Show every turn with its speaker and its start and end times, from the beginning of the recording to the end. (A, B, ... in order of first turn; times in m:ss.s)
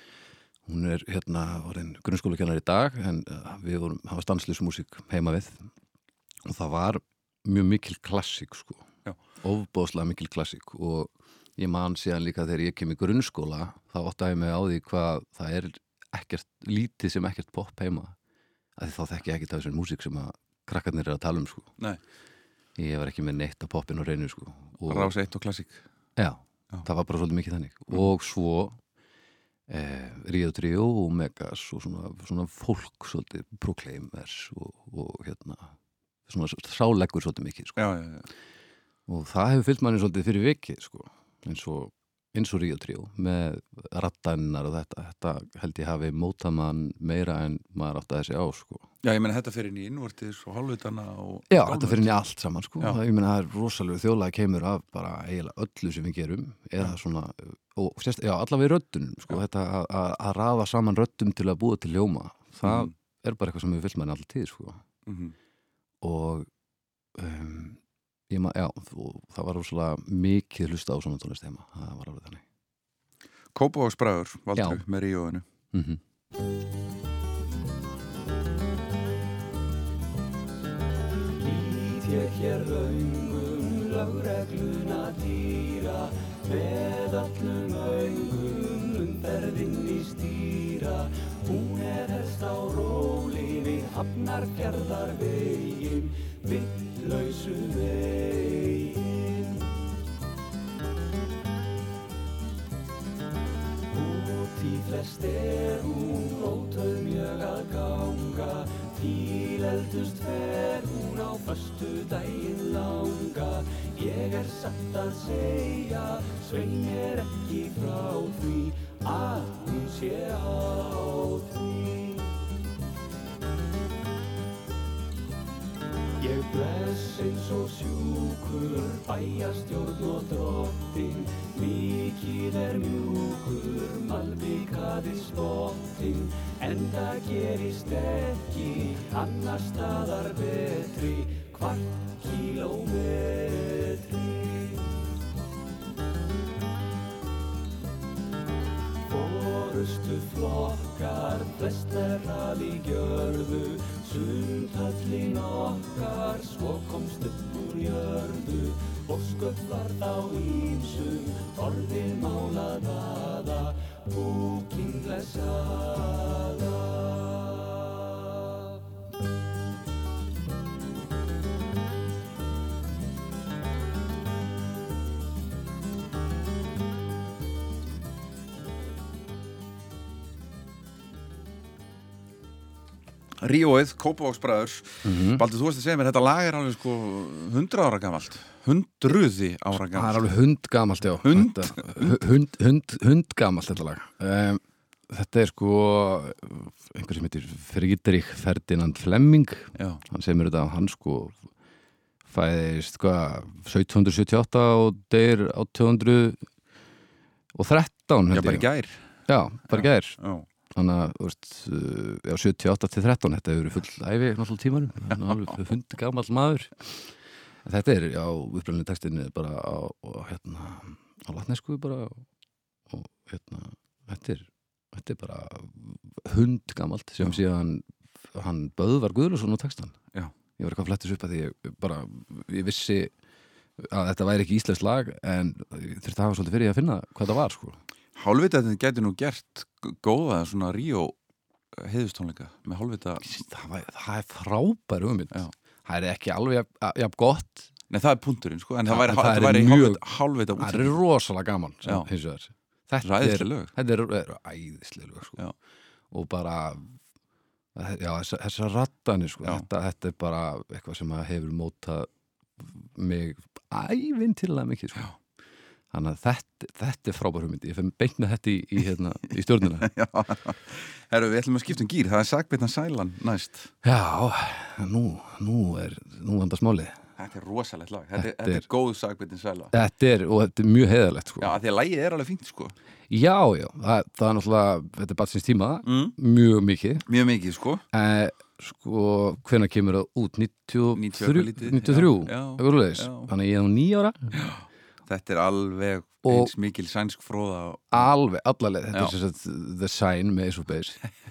0:00.7-0:05.7 A
0:06.4-0:08.9 A
0:09.4-0:18.2 A
0:18.8-0:21.7 A
0:22.8-0:25.1 A
0:24.8-0:25.9 B
0:26.2-0:28.8 A
0:29.7-0:35.7 A
0:36.3-0:37.8 A
0:37.8-0:38.3 B
0:39.1-0:48.9 A
0:49.0-0:52.1 B
0:51.5-1:04.8 A
1:02.6-1:02.9 B
1:05.1-1:05.4 B
1:06.0-1:06.5 A
1:07.2-1:12.4 A
1:13.6-1:15.4 B
1:14.6-1:14.8 A
1:15.7-1:16.0 A
1:21.4-1:39.5 C
1:43.9-2:02.3 C
2:06.2-2:24.8 C
2:29.1-2:47.6 C
3:03.4-3:10.2 B
3:05.0-3:05.4 A
3:09.9-3:21.4 A
3:11.2-3:12.2 B
3:22.3-3:26.4 A
3:27.6-3:28.7 A
3:28.3-3:29.1 B
3:29.3-3:30.2 A
3:29.7-3:30.5 B
3:30.7-3:37.0 A
3:35.1-3:35.6 B
3:37.6-3:42.2 A
3:42.9-3:50.0 A
3:50.6-3:53.1 A
3:53.8-3:57.8 A
3:58.2-4:01.2 B
4:01.8-4:03.4 B
4:03.2-4:07.7 A
4:07.9-4:11.0 B
4:08.9-4:10.0 A
4:10.6-4:15.4 A
4:13.0-4:13.7 B
4:16.1-4:17.0 A
4:17.8-4:22.1 A
4:22.6-4:25.1 A
4:25.9-4:29.9 A
4:29.8-4:33.7 B
4:33.8-4:37.0 A
4:37.2-4:39.8 B
4:38.2-4:38.7 A
4:39.7-4:41.6 A
4:41.4-4:42.8 B
4:43.1-4:47.0 A
4:45.9-4:46.2 B
4:47.1-4:47.8 B
4:47.9-4:54.3 A
4:51.0-4:53.3 B
4:54.3-4:58.1 B
4:56.2-4:56.5 A
4:57.9-5:01.0 A